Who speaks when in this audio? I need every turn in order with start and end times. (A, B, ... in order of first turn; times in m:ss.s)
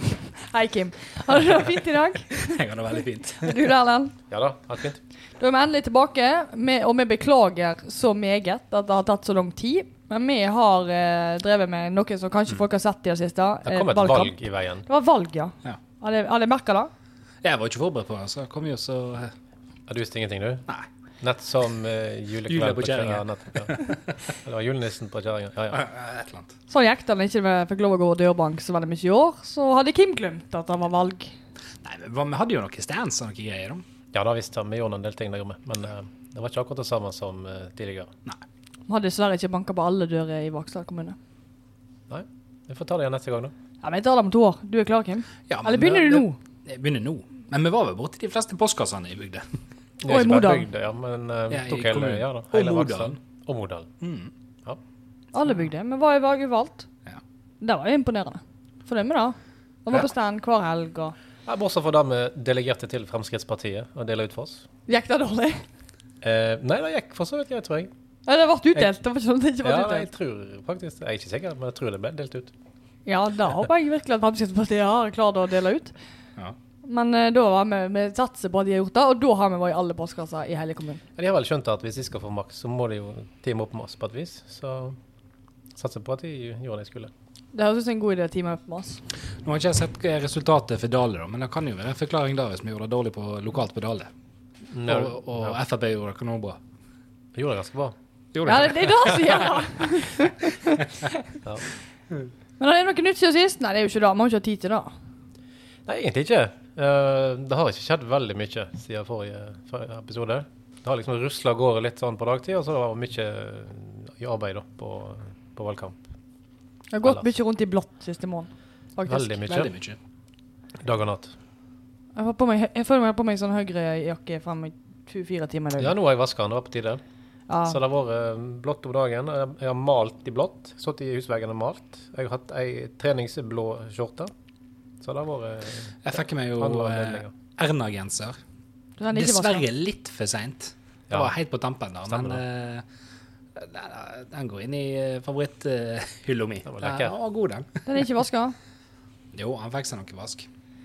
0:00.2-0:02.6 A
0:02.4-0:03.6 B
0:03.4-0:04.2 A
0:04.3-0:05.0 C
0:05.4-0:16.9 A
0:13.6-0:14.8 C
0:17.4-0:19.3 B
0:19.9-0:20.6 C
0:21.2-0:23.8 C
0:22.5-0:24.2 B
0:24.4-0:25.8 C
0:25.7-0:26.5 B
0:26.7-0:31.4 A
0:31.8-0:33.8 B
0:34.1-0:38.1 C
0:38.9-0:41.2 A
0:42.1-0:43.5 C
0:43.8-0:46.4 A
0:45.5-0:49.4 B
0:50.0-0:53.9 C
0:50.1-0:50.7 A
0:51.5-0:53.2 B
0:54.0-0:54.3 B
0:55.3-0:56.9 A
0:57.6-1:01.1 A
1:01.4-1:04.6 C
1:04.9-1:05.6 A
1:06.2-1:07.9 C
1:08.2-1:10.1 A
1:09.6-1:12.5 C
1:13.0-1:15.9 A
1:16.8-1:21.0 A
1:21.2-1:25.0 C
1:25.8-1:27.1 C
1:27.5-1:29.0 A
1:29.4-1:34.1 B
1:34.7-1:35.6 C
1:34.8-1:36.6 B
1:37.3-1:38.0 C
1:38.3-1:39.5 B
1:38.4-1:41.2 A
1:42.6-1:44.9 A
1:45.8-1:56.0 C
1:56.9-1:59.4 A
1:59.1-1:59.7 C
1:59.4-2:00.0 B
2:00.8-2:01.3 C
2:02.2-2:05.9 A
2:05.8-2:07.0 C
2:07.5-2:07.8 A
2:07.7-2:14.3 C
2:15.0-2:17.3 C
2:16.0-2:18.4 B
2:19.0-2:19.6 A
2:19.1-2:22.8 B
2:22.1-2:22.4 C
2:23.5-2:27.8 B
2:26.6-2:27.1 C
2:27.8-2:28.6 A
2:29.3-2:30.5 B